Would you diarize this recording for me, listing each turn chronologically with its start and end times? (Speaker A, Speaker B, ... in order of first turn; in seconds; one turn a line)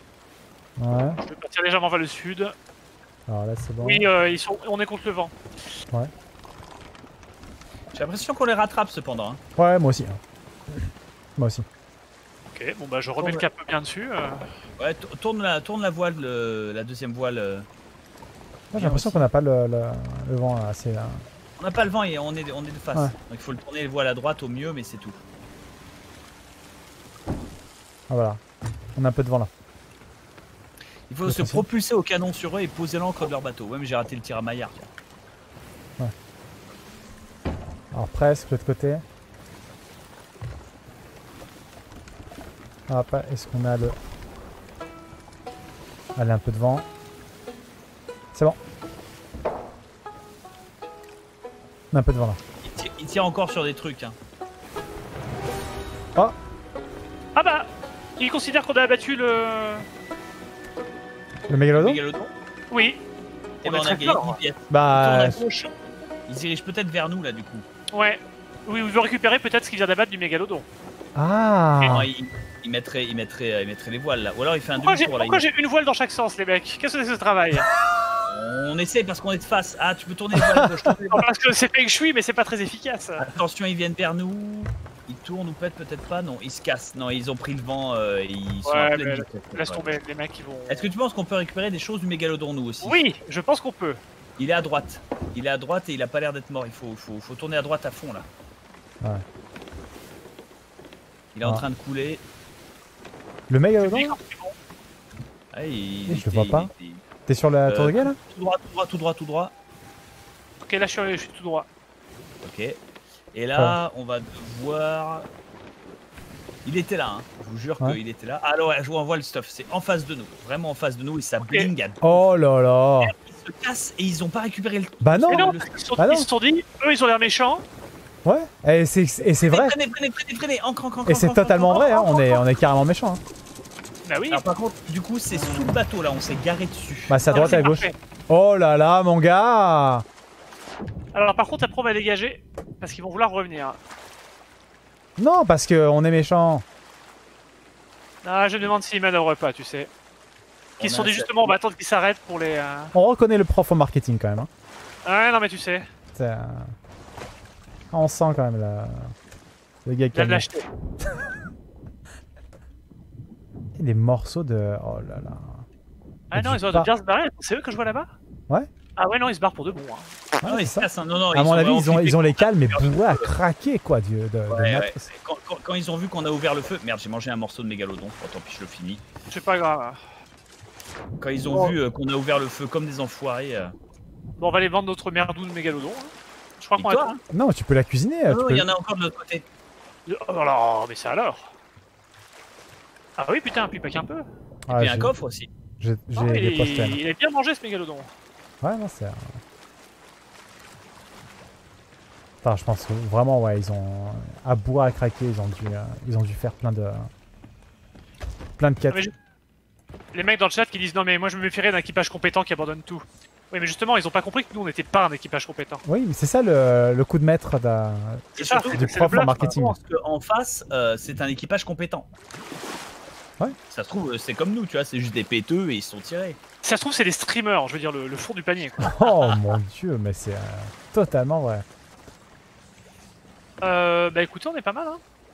Speaker A: 0.8-1.2
Speaker B: 1.2-2.5
Speaker A: 3.3-4.1
Speaker B: 3.8-5.3
Speaker C: 7.9-9.4
Speaker A: 9.6-10.2
Speaker A: 10.7-11.7
Speaker B: 12.5-14.5
Speaker C: 13.2-13.4
Speaker C: 14.8-17.7
Speaker A: 18.7-21.2
Speaker C: 18.7-19.2
Speaker C: 21.6-25.2
Speaker A: 28.1-28.4
Speaker A: 29.0-29.5
Speaker C: 31.1-34.9
Speaker A: 31.2-31.6
Speaker A: 37.9-39.0
Speaker A: 42.9-44.0
Speaker A: 46.2-46.9
Speaker A: 51.9-52.4
Speaker C: 52.6-54.2
Speaker B: 57.4-59.9
Speaker A: 61.5-62.0
Speaker C: 61.8-62.3
Speaker B: 62.7-63.0
Speaker B: 63.6-64.4
Speaker C: 63.6-65.7
Speaker A: 64.7-65.4
Speaker C: 66.3-67.7
Speaker B: 67.9-70.7
Speaker A: 71.2-72.1
Speaker C: 71.8-75.4
Speaker B: 74.8-77.7
Speaker C: 78.3-81.3
Speaker A: 80.4-80.7
Speaker B: 81.1-83.3
Speaker C: 83.2-90.0
Speaker B: 88.7-90.9
Speaker C: 90.7-93.0
Speaker B: 92.8-94.0
Speaker C: 94.4-98.3
Speaker C: 101.3-102.2
Speaker A: 103.5-104.2
Speaker B: 103.8-104.6
Speaker C: 105.5-107.0
Speaker A: 106.1-106.7
Speaker A: 107.3-108.2
Speaker C: 107.7-109.5
Speaker B: 110.6-111.7
Speaker C: 112.4-112.8
Speaker C: 113.3-115.3
Speaker C: 116.7-122.2
Speaker B: 121.4-121.7
Speaker A: 122.0-123.1
Speaker C: 123.0-125.7
Speaker A: 125.0-126.3
Speaker B: 125.3-127.6
Speaker A: 128.2-129.8
Speaker C: 129.4-132.1
Speaker A: 131.1-133.2
Speaker B: 131.7-132.4
Speaker B: 134.1-134.4
Speaker C: 134.3-137.7
Speaker A: 137.1-140.1
Speaker B: 137.3-137.9
Speaker B: 141.1-143.8
Speaker A: 145.2-146.6
Speaker B: 148.2-149.9
Speaker C: 150.8-151.6
Speaker B: 150.8-152.9
Speaker A: 152.9-154.5
Speaker B: 155.1-155.9
Speaker A: 156.1-156.7
Speaker A: 157.9-159.2
Speaker A: 159.8-160.5
Speaker B: 160.1-160.7
Speaker A: 163.8-165.7
Speaker B: 166.3-168.1
Speaker A: 166.3-166.9
Speaker B: 169.0-170.2
Speaker A: 170.4-175.0
Speaker C: 170.4-173.3
Speaker C: 174.5-179.0
Speaker B: 179.3-180.0
Speaker C: 181.2-183.8
Speaker B: 181.5-181.8
Speaker B: 184.4-187.2
Speaker C: 186.8-187.2
Speaker A: 187.3-188.7
Speaker C: 188.3-189.4
Speaker B: 190.1-191.5
Speaker B: 193.2-194.3
Speaker A: 194.7-195.1
Speaker C: 194.7-195.5
Speaker A: 195.8-197.0
Speaker B: 196.1-198.1
Speaker A: 198.6-199.4
Speaker A: 202.4-207.1
Speaker A: 208.6-209.0
Speaker B: 210.1-215.8
Speaker A: 215.8-219.8
Speaker C: 218.4-222.1
Speaker B: 218.4-219.7
Speaker C: 223.7-226.4
Speaker B: 226.6-229.0
Speaker A: 228.8-231.7
Speaker B: 233.6-235.0